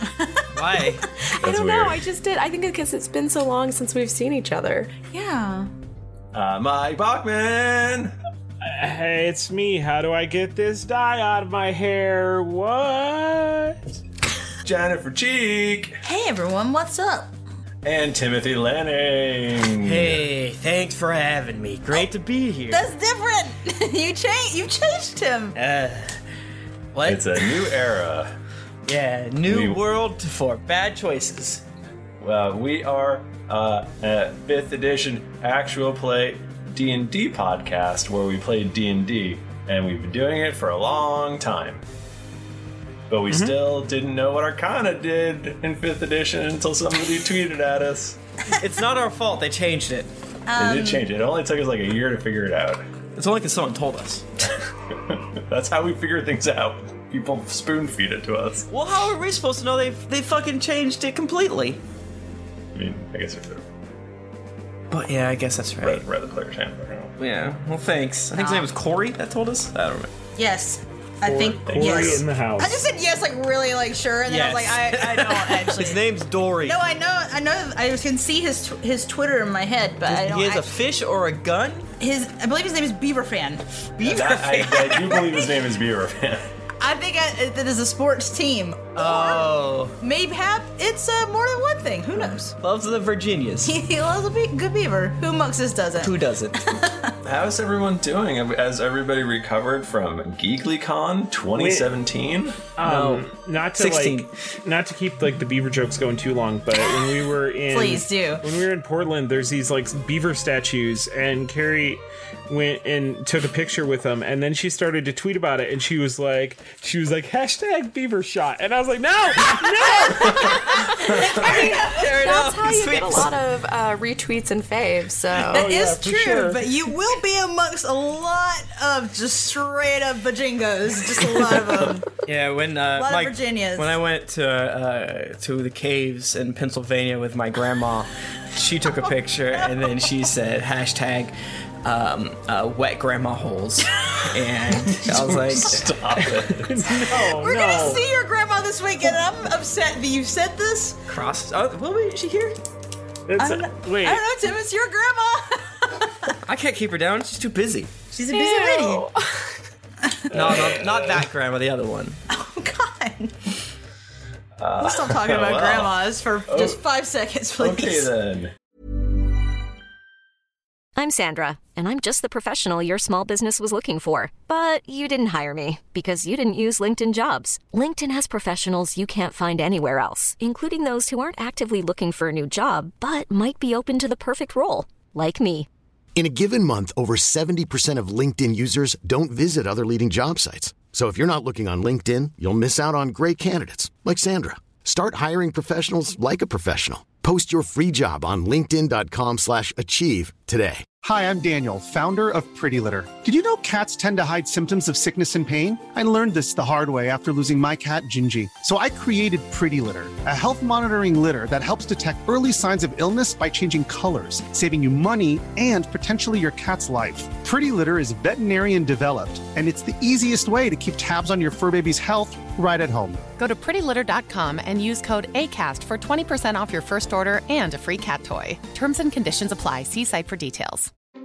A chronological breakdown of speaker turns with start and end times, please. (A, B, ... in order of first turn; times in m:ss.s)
0:00.6-0:01.1 A
0:01.3-0:04.9 B
0:01.4-0:02.1 C
0:05.1-0:05.7 D
0:06.3-0:08.1 C
0:08.6-0:13.8 E
0:14.6-0:16.0 C
0:16.0-0:17.3 D
0:17.8-0:20.2 C
0:19.8-0:22.9 A
0:22.7-0:25.6 D
0:25.6-0:26.2 A
0:26.9-0:27.3 A
0:27.0-0:28.3 C
0:28.9-0:31.6 A
0:29.5-0:29.8 C
0:32.2-0:41.8 C
0:43.1-0:48.2 C
0:43.3-0:43.6 E
0:48.5-0:50.1 A
0:50.5-0:51.1 D
0:50.6-0:52.8 C
0:53.2-0:54.2 A
0:54.9-0:58.7 C
0:58.7-1:01.8 A
1:02.7-1:03.6 C
1:04.9-1:06.0 A
1:05.8-1:07.2 C
1:07.2-1:10.1 A
1:08.3-1:08.7 D
1:10.4-1:16.0 D
1:11.2-1:12.8 E
1:11.7-1:12.2 C
1:14.3-1:16.8 A
1:16.6-1:20.7 D
1:20.0-1:21.9 A
1:22.0-1:25.5 D
1:24.0-1:24.9 A
1:24.0-1:26.5 C
1:26.8-1:32.6 D
1:29.0-1:30.0 A
1:32.3-1:33.7 A
1:33.6-1:37.2 D
1:36.0-1:36.6 A
1:37.2-1:42.6 C
1:41.6-1:41.9 E
1:42.8-2:00.3 E
1:42.8-1:44.3 A
1:47.7-1:48.4 D
2:00.1-2:02.4 D
2:01.2-2:03.3 A
2:01.4-2:05.7 B
2:05.5-2:12.1 D
2:05.5-2:06.6 E
2:12.3-2:21.3 A
2:13.0-2:14.0 D
2:19.0-2:20.0 D
2:21.8-2:25.8 A
2:25.3-2:26.8 C
2:26.3-2:28.0 E
2:27.1-2:31.0 D
2:31.1-2:32.6 A
2:33.3-2:34.2 E
2:33.4-2:36.3 D
2:36.4-2:38.0 A
2:38.1-2:39.1 D
2:38.3-2:39.4 B
2:40.0-2:40.4 D
2:40.3-2:41.3 C
2:40.3-2:42.2 A
2:42.3-2:43.4 D
2:44.6-2:46.8 C
2:44.8-2:48.1 D
2:47.6-2:48.5 C
2:51.0-3:05.7 F
3:06.2-3:20.9 G
3:21.0-3:43.2 H
3:43.4-3:50.9 I